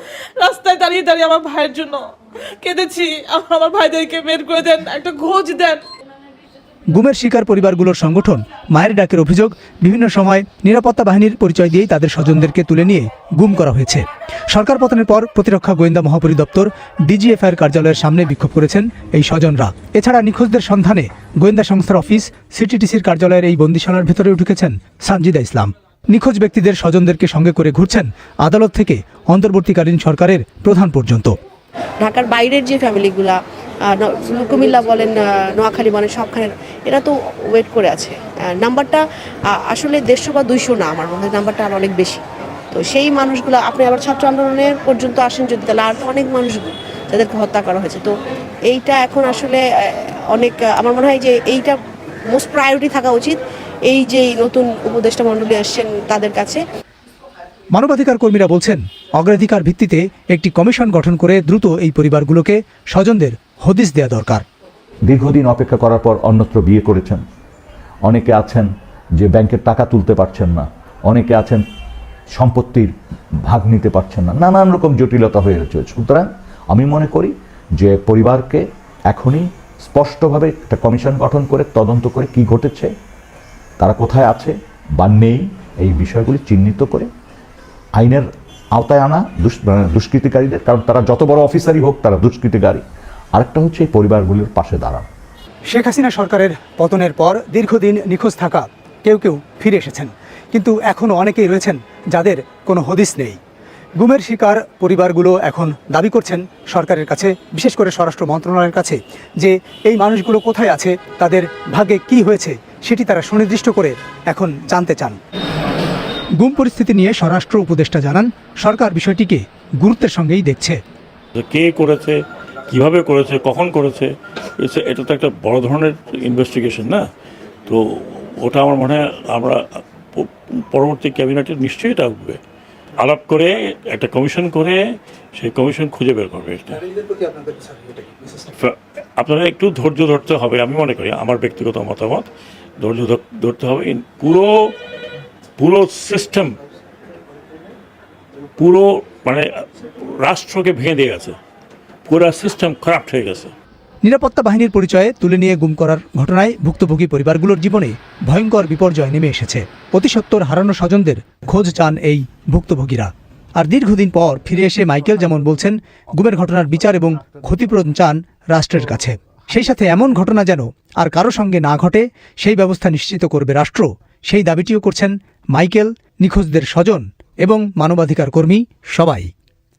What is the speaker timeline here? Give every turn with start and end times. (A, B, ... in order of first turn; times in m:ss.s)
0:00.4-0:05.8 A
0:06.9-0:31.4 B
0:32.0-0:48.1 C
0:48.7-0:51.8 C
0:52.3-0:56.6 C
0:57.7-1:04.4 B
1:05.1-1:07.2 D
1:08.0-1:11.6 D
1:12.3-1:12.9 D
1:13.4-1:22.9 D
1:23.8-1:27.1 D
1:28.0-1:32.8 D
1:33.3-1:35.1 D
1:35.7-1:43.4 B
1:44.0-1:55.2 B
1:56.4-2:00.8 B
2:01.4-2:07.0 E
2:07.7-2:12.4 E
2:13.0-2:14.8 E
2:15.4-2:16.8 E
2:16.8-2:18.5 B
2:18.6-2:22.3 E
2:22.8-2:24.7 E
2:25.6-2:26.5 E
2:28.6-2:29.4 E
2:30.0-2:31.4 E
2:32.1-2:33.5 E
2:34.0-2:59.3 B